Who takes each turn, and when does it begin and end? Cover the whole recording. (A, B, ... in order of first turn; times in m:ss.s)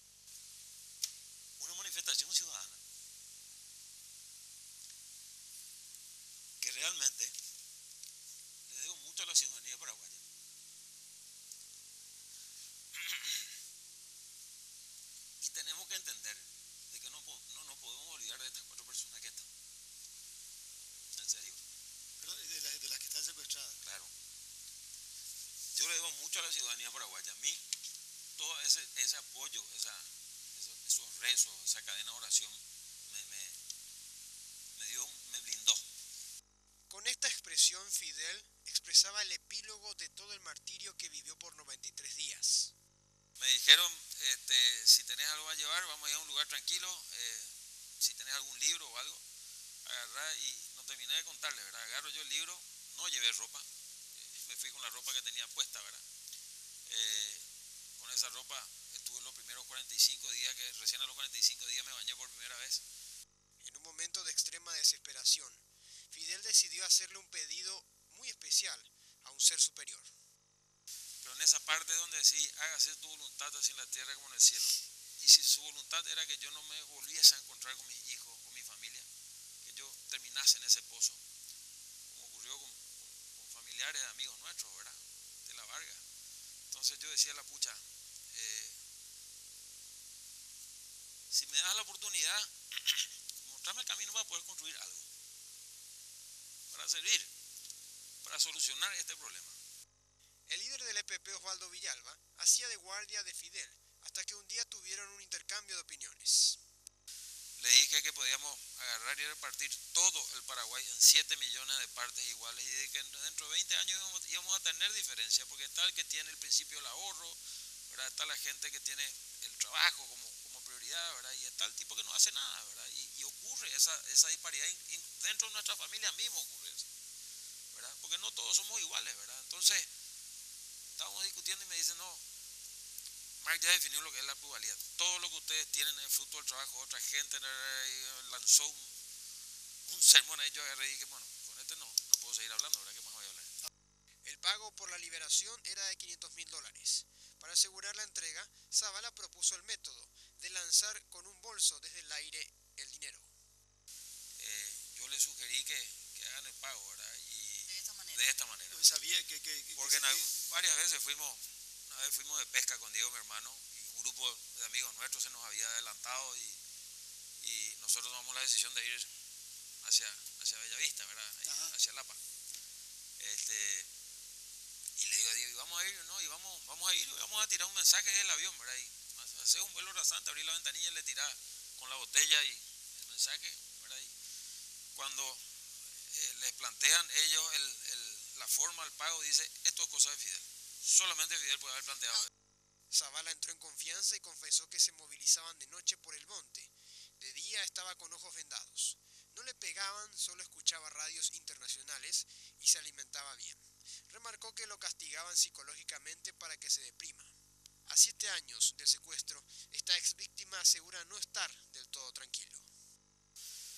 0:01.6-0:02.8 A
0:06.6-0:07.4 A
0:08.7-0:10.2 A
0:13.0-0:13.4 A
0:15.4-0:19.5 A
0:21.2-0:21.6 A
0:22.2-0:23.8 B
0:23.8-0:24.1 A
0:25.7-0:27.6 A
0:28.4-0:33.6 A
0:34.8-0:35.8 A
0:36.9-0:42.7 C
0:43.4-0:49.2 A
0:49.8-0:53.7 A
0:54.3-0:56.0 A
0:56.9-0:57.4 A
0:58.0-1:02.8 A
1:03.6-1:10.1 C
1:11.2-1:19.1 A
1:19.6-1:21.2 A
1:22.1-1:26.0 A
1:26.7-1:28.8 A
1:31.3-1:35.1 A
1:36.7-1:37.3 A
1:38.2-1:39.6 A
1:40.5-1:46.6 C
1:47.6-1:57.4 A
1:57.9-2:06.9 A
2:07.7-2:09.9 A
2:11.0-2:12.2 A
2:13.4-2:18.9 A
2:19.9-2:23.5 A
2:24.2-2:33.3 C
2:34.4-2:38.9 A
2:38.7-2:40.3 B
2:39.7-2:46.6 A
2:47.4-2:49.1 A
2:49.8-2:52.2 A
2:53.2-2:53.9 A
2:55.0-3:04.1 A
3:05.0-3:05.5 A
3:06.0-3:12.3 A
3:12.9-3:27.3 C
3:27.8-3:32.7 C